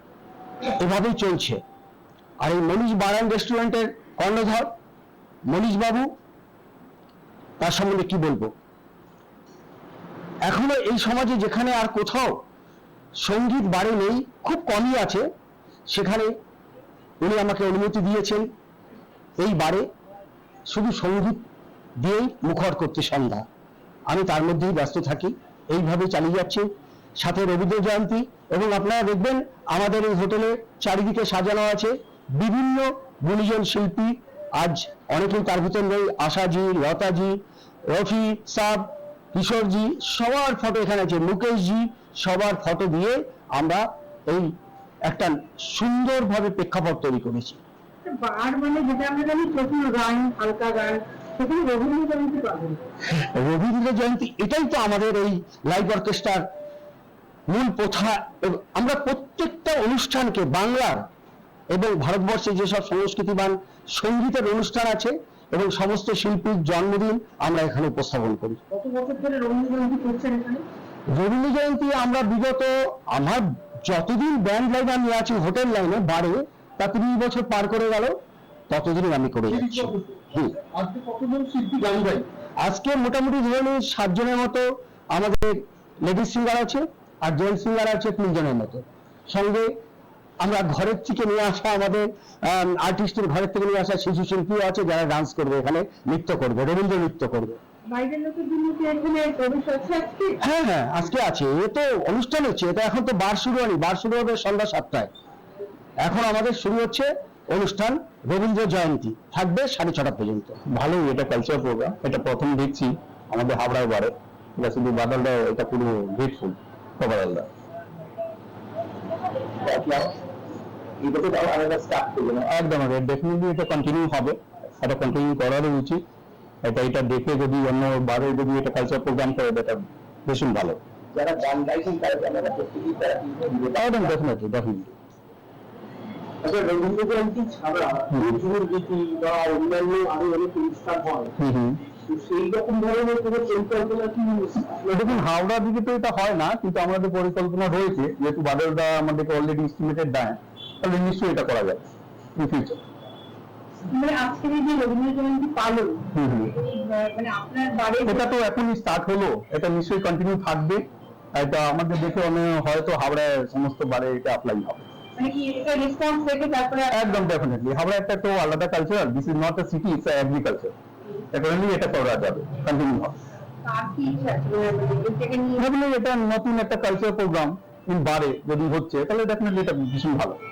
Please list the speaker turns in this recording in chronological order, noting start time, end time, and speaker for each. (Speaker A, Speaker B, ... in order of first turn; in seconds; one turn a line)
Speaker A: 0.8-1.6
Speaker A: 2.4-4.7
Speaker A: 5.5-6.1
Speaker A: 7.6-8.5
Speaker A: 10.5-12.3
Speaker A: 13.2-15.3
Speaker A: 15.9-16.3
Speaker A: 17.2-18.5
Speaker A: 19.4-19.9
Speaker A: 20.7-21.5
Speaker A: 22.0-23.5
Speaker A: 24.1-26.6
Speaker A: 27.2-44.5
Speaker A: 45.1-47.6
Speaker B: 48.0-48.8
Speaker C: 48.8-50.3
Speaker B: 49.3-51.0
Speaker C: 51.4-52.0
Speaker B: 51.5-52.8
Speaker A: 53.1-56.5
Speaker A: 57.5-61.1
Speaker A: 61.7-68.6
Speaker B: 68.7-70.6
Speaker A: 71.1-78.1
Speaker A: 78.7-80.6
Speaker D: 81.1-81.5
Speaker A: 82.6-89.7
Speaker A: 90.4-97.6
Speaker B: 97.9-100.3
Speaker A: 100.4-105.1
Speaker A: 106.0-110.6
Speaker D: 110.7-117.5
Speaker C: 119.6-120.2
Speaker C: 121.0-122.4
Speaker D: 122.4-126.0
Speaker D: 126.6-130.8
Speaker C: 131.1-134.1
Speaker D: 133.7-134.9
Speaker C: 136.4-141.3
Speaker D: 138.1-138.4
Speaker D: 141.4-141.8
Speaker C: 142.0-144.9
Speaker D: 144.9-151.8
Speaker D: 152.3-152.8
Speaker C: 153.9-155.5
Speaker B: 155.0-155.9
Speaker D: 156.2-156.6
Speaker B: 156.8-158.2
Speaker D: 158.1-164.9
Speaker B: 165.2-166.9
Speaker D: 166.9-170.7
Speaker D: 171.3-173.2
Speaker C: 173.7-175.5
Speaker D: 175.6-180.4